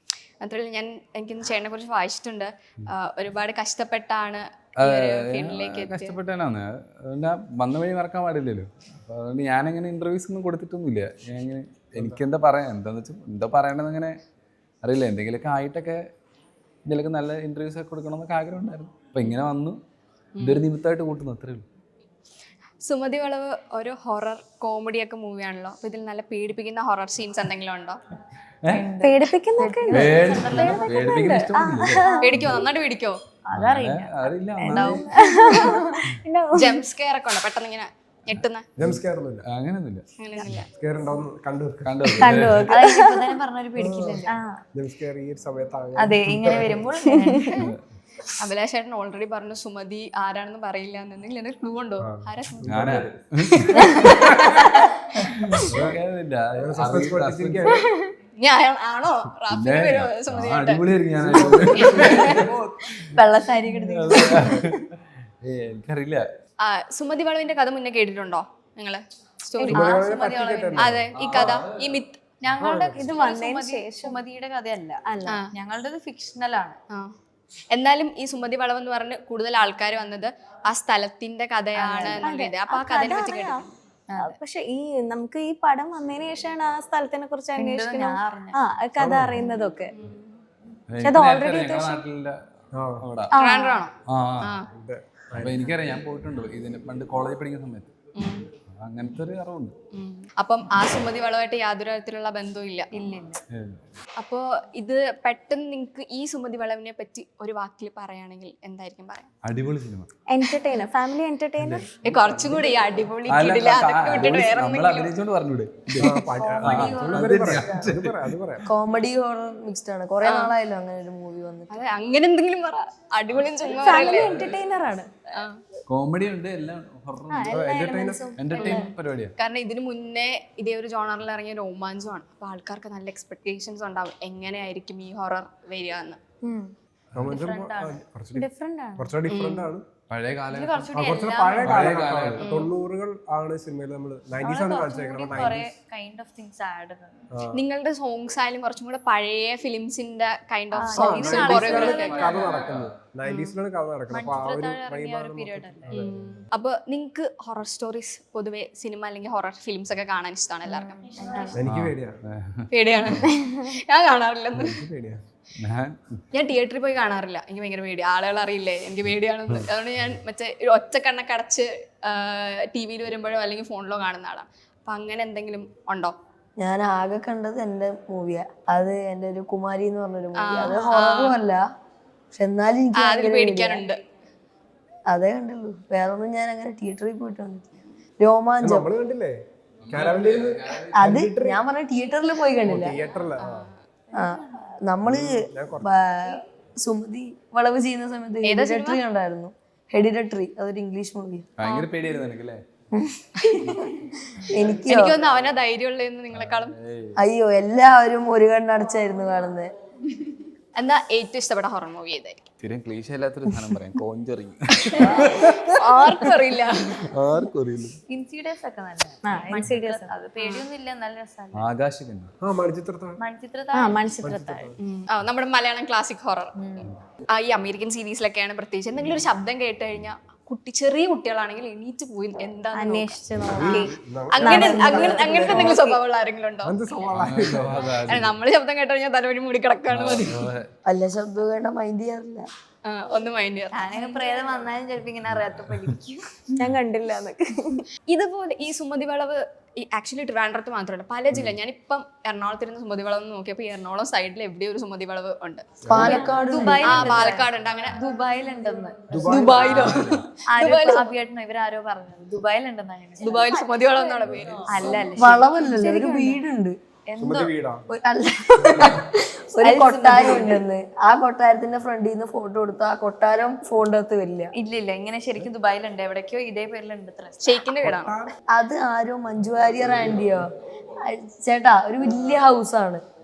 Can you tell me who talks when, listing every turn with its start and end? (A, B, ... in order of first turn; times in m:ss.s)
0:00.4-0:06.2 A
0:04.8-0:14.2 B
0:14.8-0:16.0 B
0:16.9-0:19.8 B
0:20.4-0:20.7 A
0:20.4-0:21.6 B
0:22.8-0:28.0 A
0:28.6-0:28.9 B
0:28.7-0:31.1 C
0:29.0-0:32.6 D
0:29.9-0:32.6 B
0:32.2-0:33.2 A
0:33.5-0:36.0 C
0:33.5-0:35.1 B
0:34.6-0:36.8 D
0:36.5-0:38.7 A
0:38.8-0:39.4 E
0:38.8-0:40.1 B
0:40.2-0:40.7 A
0:40.7-0:42.5 E
0:41.8-0:42.7 B
0:42.2-0:43.3 D
0:42.7-0:44.4 C
0:43.8-0:46.9 E
0:44.3-0:44.6 D
0:46.0-0:47.6 C
0:47.0-0:47.6 D
0:47.6-0:47.8 B
0:48.2-0:52.7 A
0:52.0-0:53.2 E
0:52.7-0:54.2 B
0:53.6-0:55.6 A
0:55.3-0:57.7 B
0:55.7-0:56.0 E
0:56.5-0:57.9 E
0:58.4-1:00.8 A
0:59.5-1:03.2 B
1:01.2-1:02.7 E
1:01.8-1:02.3 A
1:02.0-1:02.4 C
1:03.0-1:04.8 C
1:03.8-1:04.9 B
1:05.4-1:06.3 B
1:06.6-1:10.0 A
1:09.6-1:10.9 C
1:09.7-1:11.1 E
1:10.8-1:12.2 A
1:11.1-1:12.0 B
1:12.4-1:15.0 C
1:12.5-1:13.1 E
1:12.9-1:14.2 D
1:15.0-1:15.4 D
1:15.5-1:16.8 C
1:17.7-1:23.7 A
1:21.8-1:22.3 C
1:22.2-1:23.6 D
1:24.1-1:24.4 C
1:24.2-1:29.9 D
1:27.6-1:28.6 C
1:29.0-1:29.4 E
1:30.0-1:30.3 A
1:30.9-1:32.4 B
1:31.0-1:32.0 D
1:32.8-1:33.0 E
1:33.0-1:33.3 B
1:33.3-1:33.8 D
1:33.3-1:34.7 A
1:34.0-1:34.5 B
1:34.7-1:35.7 E
1:35.4-1:37.9 B
1:38.2-1:38.5 A
1:38.7-1:39.8 B
1:39.9-1:42.9 A
1:42.9-1:43.4 C
1:43.5-1:43.8 B
1:44.2-1:49.3 A
1:49.4-1:50.1 B
1:50.3-1:51.9 D
1:51.6-1:52.6 B
1:52.0-1:55.2 A
1:53.3-1:58.2 B
1:56.0-1:58.6 E
1:56.4-1:57.9 F
1:58.6-2:01.8 F
2:00.2-2:00.5 A
2:01.7-2:04.5 A
2:03.8-2:05.1 D
2:04.1-2:04.4 B
2:05.3-2:05.6 A
2:05.9-2:07.6 B
2:07.3-2:08.9 D
2:07.5-2:08.3 E
2:08.4-2:09.3 B
2:08.6-2:16.2 A
2:16.4-2:16.7 D
2:17.2-2:19.9 E
2:17.3-2:18.0 C
2:18.4-2:19.1 D
2:19.3-2:19.7 A
2:20.1-2:22.6 B
2:20.5-2:21.9 C
2:20.9-2:25.7 E
2:22.4-2:22.7 A
2:24.4-2:27.3 C
2:27.3-2:27.6 E
2:27.5-2:32.4 A
2:30.7-2:32.4 C
2:31.0-2:36.4 E
2:31.3-2:32.9 B
2:33.2-2:33.5 A
2:34.1-2:36.0 C
2:35.9-2:41.6 A
2:40.7-2:41.6 C
2:41.5-2:42.2 E
2:41.6-2:43.2 B
2:42.7-2:44.8 A
2:43.3-2:43.6 D
2:44.6-2:45.2 E
2:45.6-2:46.2 B
2:46.3-2:56.2 A
2:56.6-3:01.6 F
3:00.4-3:01.4 A
3:02.3-3:03.8 F
3:03.0-3:04.0 A
3:05.1-3:07.7 F
3:08.2-3:08.9 F
3:08.6-3:09.4 E
3:09.8-3:11.2 B
3:09.9-3:11.6 E
3:10.9-3:13.0 F
3:12.6-3:13.7 E
3:13.4-3:13.8 A
3:14.1-3:21.5 F
3:15.0-3:15.9 E
3:18.4-3:19.0 A
3:21.6-3:22.6 B
3:22.9-3:23.2 F
3:23.4-3:23.7 A
3:24.0-3:25.2 F
3:24.7-3:26.8 A
3:26.3-3:27.2 B
3:27.2-3:29.7 F
3:30.8-3:32.4 A
3:32.6-3:35.8 B
3:34.8-3:37.1 A
3:37.1-3:38.0 B
3:38.1-3:41.7 C
3:39.3-3:40.1 D
3:40.4-3:40.6 A
3:41.5-3:42.3 B
3:42.4-3:43.2 E
3:43.2-3:44.2 C
3:43.7-3:44.7 D
3:44.2-3:44.8 E
3:44.8-4:00.5 A
3:46.6-3:46.9 C
3:52.7-3:56.0 D
3:53.6-3:55.8 E
3:56.6-3:58.2 E
3:57.1-3:58.4 B
3:59.9-4:00.7 B
4:00.9-4:02.5 F
4:02.8-4:04.2 A
4:03.7-4:06.4 C
4:05.4-4:05.9 B
4:06.6-4:07.8 D
4:08.1-4:16.1 A
4:15.8-4:16.2 E
4:15.9-4:16.9 F
4:16.0-4:19.7 C
4:16.8-4:18.0 A
4:19.1-4:20.2 E
4:19.2-4:21.1 A
4:20.5-4:23.9 C
4:23.2-4:25.0 A
4:24.4-4:25.0 E
4:24.7-4:26.4 C
4:25.1-4:26.8 F
4:27.1-4:27.5 C
4:27.2-4:27.9 E
4:27.9-4:34.5 F
4:29.6-4:30.6 C
4:34.5-4:37.6 C
4:37.4-4:38.2 A
4:37.8-4:38.3 E
4:38.5-4:40.5 F
4:41.0-4:43.0 F